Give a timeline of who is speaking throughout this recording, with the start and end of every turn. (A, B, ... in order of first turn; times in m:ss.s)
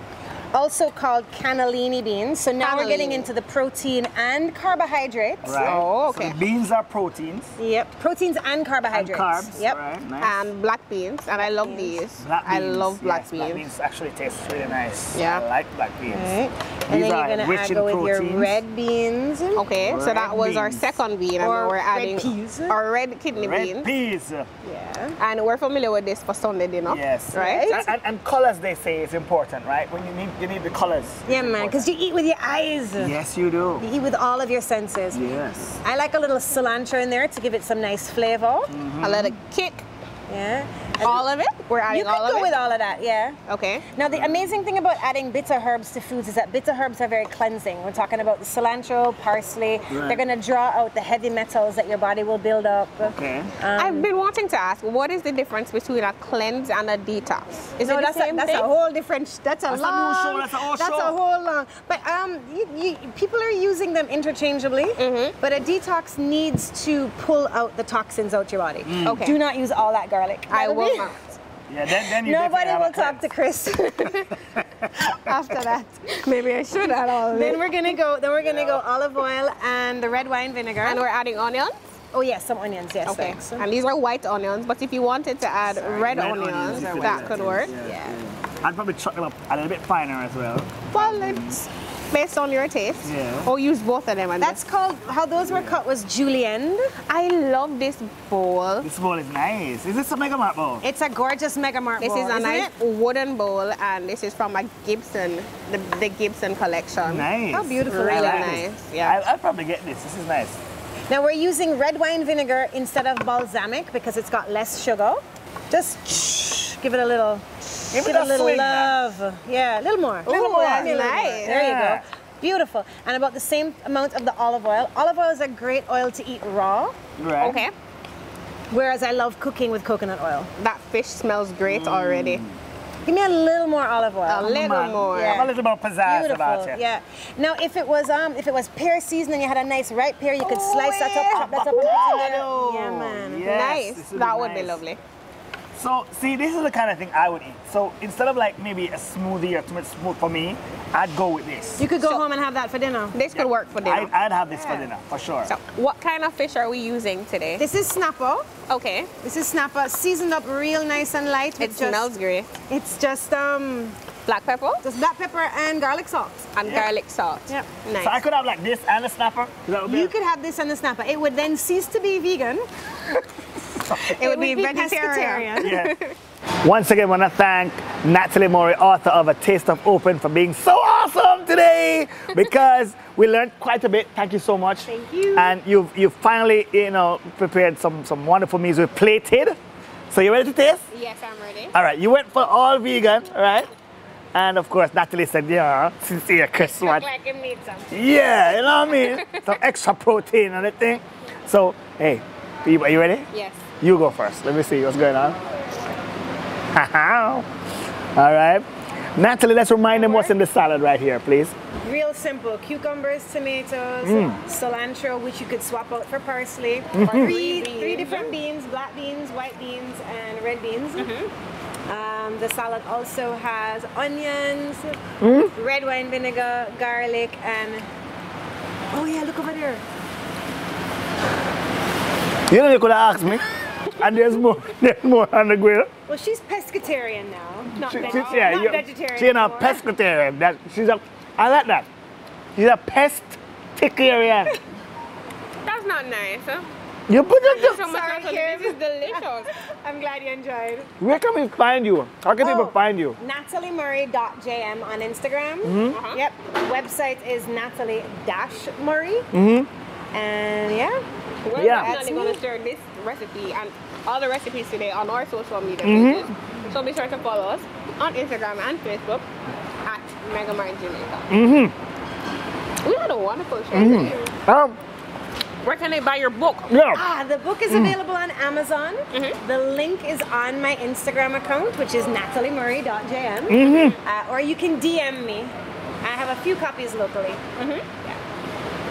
0:00.5-0:05.8 A
0:02.6-0:03.3 B
0:05.4-0:07.6 C
0:05.5-0:06.4 B
0:07.6-0:09.8 A
0:08.9-0:10.5 C
0:10.2-0:13.6 B
0:11.4-0:12.0 A
0:12.2-0:16.4 C
0:15.1-0:15.4 B
0:16.1-0:19.6 A
0:16.9-0:18.6 C
0:19.6-0:23.9 B
0:19.7-0:21.0 C
0:21.4-0:22.8 A
0:23.4-0:24.5 C
0:24.6-0:25.2 A
0:25.2-0:27.9 B
0:26.9-0:31.9 C
0:27.3-0:27.8 A
0:31.3-0:33.1 A
0:33.0-0:33.8 C
0:33.8-0:35.2 A
0:35.1-0:35.8 C
0:35.8-0:38.7 A
0:38.7-0:39.4 C
0:39.0-0:39.8 B
0:40.3-0:41.2 A
0:41.0-0:42.6 B
0:41.9-0:43.4 A
0:43.5-0:43.9 B
0:43.9-0:54.1 A
0:44.1-0:44.5 C
0:49.9-0:50.2 C
0:53.0-0:53.6 C
0:53.8-0:58.7 B
0:57.8-1:11.1 A
0:59.7-1:01.2 C
1:05.0-1:05.4 B
1:08.8-1:09.2 C
1:09.0-1:09.4 B
1:10.5-1:11.4 B
1:11.7-1:13.2 C
1:12.0-1:14.3 A
1:13.8-1:14.3 B
1:14.5-1:15.4 C
1:15.0-1:16.2 A
1:16.1-1:17.7 B
1:17.3-1:21.0 A
1:18.4-1:18.8 C
1:20.8-1:21.8 B
1:22.1-1:23.6 A
1:23.1-1:27.7 B
1:25.7-1:31.6 C
1:26.7-1:28.2 A
1:30.9-1:34.6 B
1:33.0-1:33.5 C
1:34.4-1:37.0 A
1:35.4-1:35.8 C
1:37.1-1:38.9 B
1:38.8-1:40.8 C
1:40.8-1:42.7 A
1:42.0-1:47.3 B
1:47.0-1:50.6 C
1:47.5-1:48.6 A
1:47.9-1:49.2 B
1:51.1-2:07.0 A
1:57.9-1:59.0 C
2:00.2-2:01.6 B
2:00.3-2:02.0 C
2:07.2-2:07.6 C
2:07.4-2:07.7 B
2:08.7-2:10.5 A
2:10.6-2:12.4 B
2:11.7-2:12.6 C
2:13.1-2:15.5 A
2:14.3-2:15.5 B
2:14.4-2:16.8 C
2:16.0-2:23.5 A
2:20.4-2:24.8 C
2:23.4-2:25.0 B
2:25.7-2:31.9 C
2:31.8-2:33.2 A
2:32.0-2:32.2 B
2:33.1-2:34.1 B
2:33.3-2:35.5 C
2:34.5-2:34.9 A
2:35.5-2:37.6 B
2:37.6-2:38.5 A
2:38.7-2:39.1 B
2:39.2-2:42.1 A
2:41.6-2:42.5 B
2:42.7-2:44.0 A
2:44.3-2:44.8 B
2:44.8-2:46.5 A
2:46.6-2:48.2 B
2:46.6-2:46.9 C
2:48.0-2:50.1 C
2:49.8-2:52.7 A
2:53.8-2:54.1 C
2:54.0-2:55.8 A
2:54.0-2:56.1 B
2:55.6-2:56.0 C
2:56.6-3:09.6 C
3:04.9-3:05.6 A
3:10.1-3:10.9 C
3:10.9-3:11.8 B
3:11.7-3:13.7 C
3:14.3-3:17.1 C
3:16.7-3:19.5 B
3:17.9-3:23.3 C
3:23.3-3:23.6 B
3:23.8-3:25.4 C
3:26.7-3:27.5 C
3:28.2-3:31.5 C
3:29.9-3:30.3 B
3:31.7-3:41.1 A
3:34.0-3:34.4 C
3:37.0-3:37.4 C
3:37.0-3:38.3 B
3:41.0-3:41.3 B
3:41.9-3:47.9 A
3:45.2-3:45.5 C
3:48.9-3:49.8 A
3:52.5-3:55.9 C
3:56.1-3:59.8 A
3:57.8-4:01.9 C
3:57.9-3:58.7 B
4:02.6-4:04.6 C
4:05.6-4:06.7 B
4:07.1-4:07.8 C
4:07.4-4:09.5 B
4:07.5-4:11.0 A
4:11.0-4:13.2 C
4:12.4-4:19.3 A
4:15.6-4:16.0 C
4:15.9-4:16.2 B
4:19.3-4:19.7 C
4:20.1-4:21.0 A
4:21.5-4:29.2 B
4:21.6-4:21.9 C
4:21.6-4:22.4 A
4:25.8-4:26.3 C
4:29.8-4:31.3 B
4:31.3-4:31.7 C
4:32.8-4:34.3 B
4:33.7-4:34.8 C
4:35.6-4:36.7 B
4:36.7-4:37.0 C
4:36.9-4:47.5 A
4:37.7-4:38.0 C
4:39.1-4:39.4 B
4:43.5-4:44.0 C
4:47.6-4:48.2 B